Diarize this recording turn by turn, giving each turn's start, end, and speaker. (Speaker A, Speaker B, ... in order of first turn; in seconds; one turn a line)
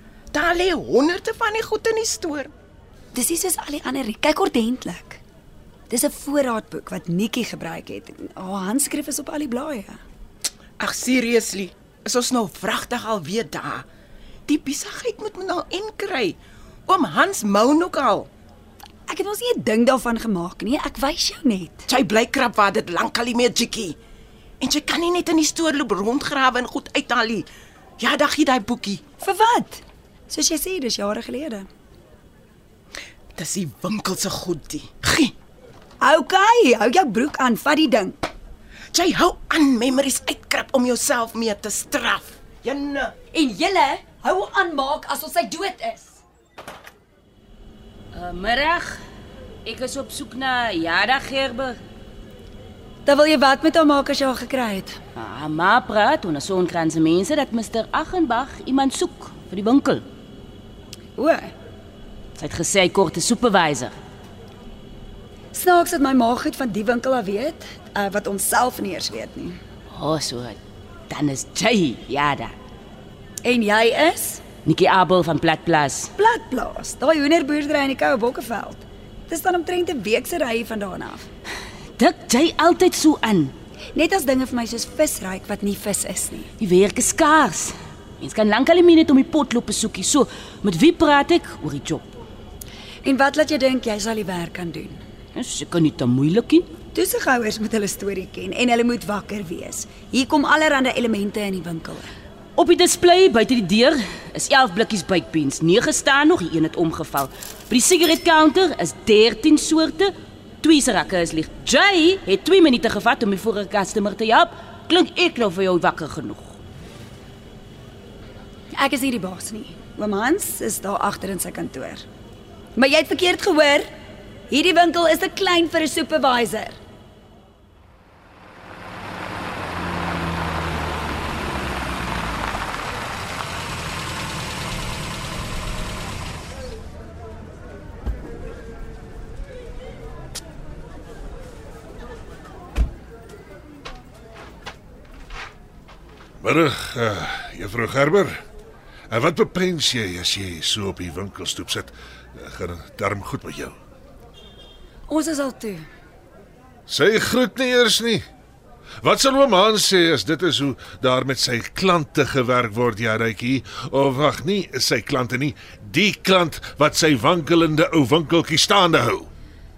Speaker A: 0.3-2.5
Speaker B: 3.1-5.2
Speaker B: 5.9-10.0
Speaker A: 10.8-13.9
Speaker A: 14.5-18.3
Speaker B: 19.1-21.9
Speaker A: 21.9-24.0
Speaker A: 24.6-27.5
Speaker A: 28.0-29.0
Speaker B: 29.2-31.7
Speaker A: 33.4-35.3
Speaker B: 36.0-38.2
Speaker A: 38.9-43.1
Speaker B: 43.3-46.2
Speaker C: 48.1-49.0
Speaker C: 49.6-51.8
Speaker B: 53.0-55.0
Speaker C: 55.1-60.1
Speaker B: 61.2-61.5
Speaker C: 62.4-63.9
Speaker B: 65.5-69.6
Speaker C: 69.9-72.5
Speaker B: 73.4-74.4
Speaker C: 74.6-76.1
Speaker B: 76.2-81.3
Speaker C: 82.0-83.5
Speaker B: 83.9-86.5
Speaker C: 86.6-92.1
Speaker B: 93.0-95.0
Speaker C: 95.3-96.7
Speaker B: 96.9-102.1
Speaker C: 102.6-116.6
Speaker B: 118.7-122.0
Speaker B: 122.8-123.9
Speaker B: 124.5-126.8
Speaker D: 146.4-148.4
Speaker D: 149.1-153.8
Speaker B: 155.1-155.9
Speaker D: 156.9-158.2
Speaker D: 159.0-169.3